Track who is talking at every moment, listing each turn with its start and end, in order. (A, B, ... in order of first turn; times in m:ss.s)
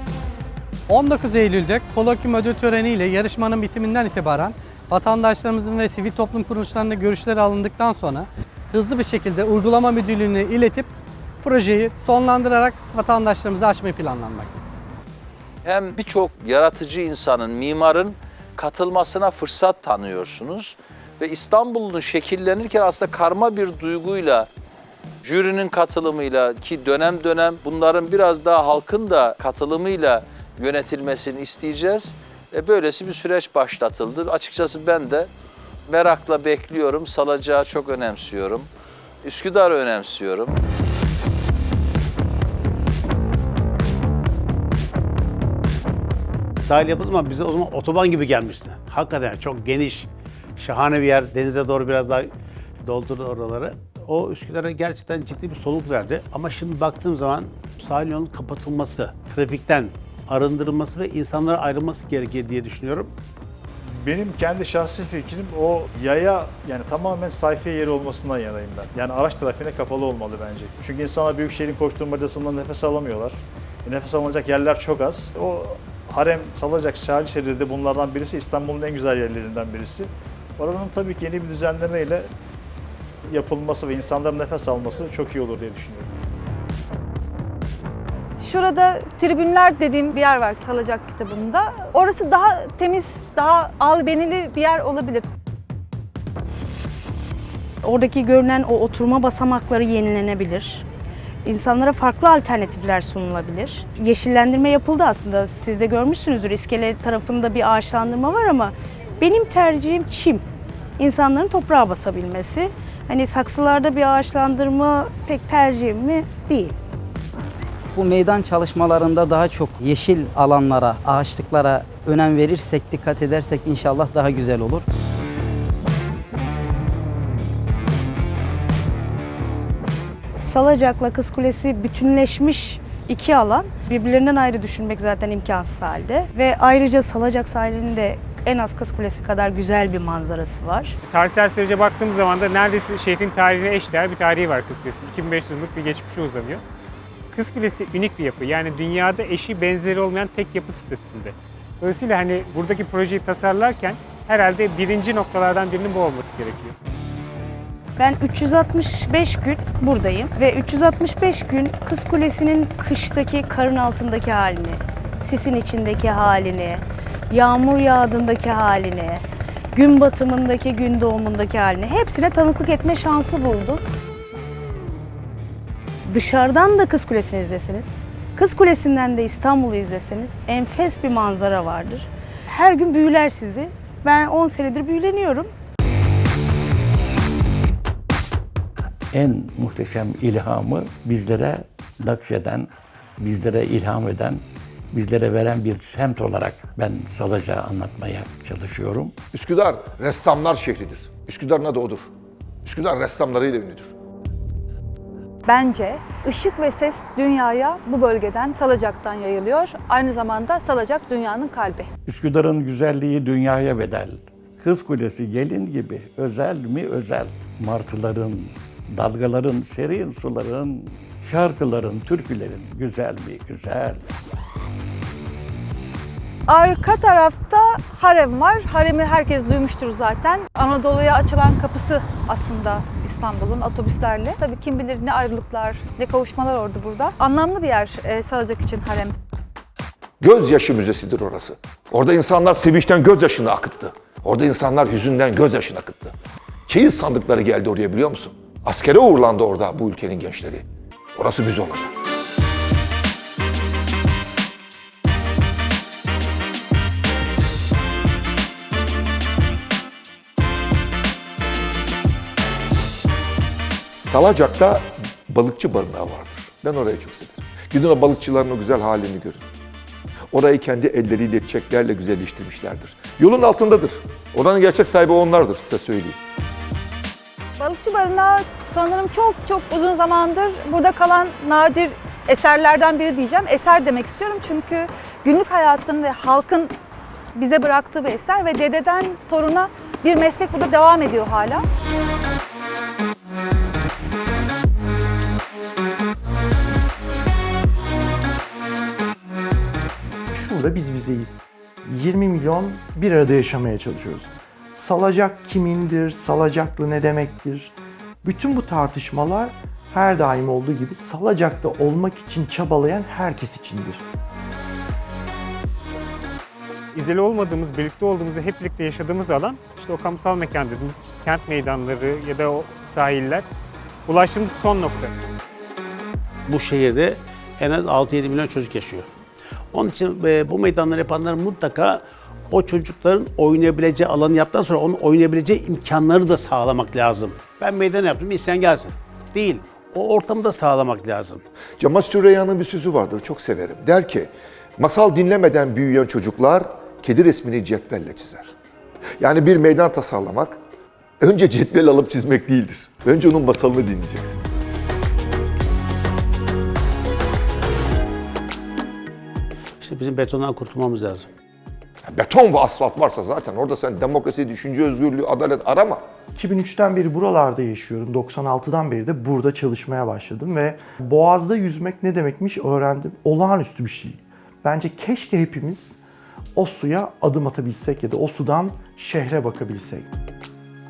0:00.9-0:10.9 A
0:11.4-0:14.8 A
0:15.6-0:20.6 B
0:15.9-0:16.4 C
0:18.1-0:22.7 C
0:21.2-0:24.4 B
0:25.2-0:35.2 B
0:28.7-0:29.4 C
0:34.5-0:35.3 C
0:35.9-0:38.7 B
0:39.2-0:40.5 B
0:46.6-0:52.3 D
0:52.8-1:03.1 D
1:04.0-1:22.3 E
1:23.3-1:26.1 E
1:28.4-1:35.2 C
1:37.8-1:40.8 F
1:41.4-1:50.4 F
1:51.0-1:56.7 F
1:57.9-2:04.8 G
2:10.4-2:21.0 F
2:21.0-2:26.6 H
2:27.3-2:36.8 H
2:38.0-2:53.8 F
2:56.1-3:05.5 F
3:09.1-3:19.2 I
3:19.3-3:22.1 J
3:22.6-3:23.9 J
3:25.4-3:31.9 C
3:32.1-3:44.0 I
3:46.5-3:59.1 C
4:00.2-4:06.1 J
4:06.7-4:11.9 J
4:23.8-4:29.4 J
4:30.3-4:36.2 J
4:37.6-4:46.7 C
4:47.3-4:51.6 C
5:00.3-5:14.0 K
5:16.9-5:23.5 H
5:24.0-5:25.1 H
5:26.5-5:29.1 D
5:29.7-5:41.5 D
5:41.8-5:48.5 J
5:49.2-5:50.6 J
5:51.2-5:54.6 J
5:59.8-6:01.3 D
6:02.1-6:06.0 J
6:06.3-6:16.0 K
6:16.6-6:20.0 K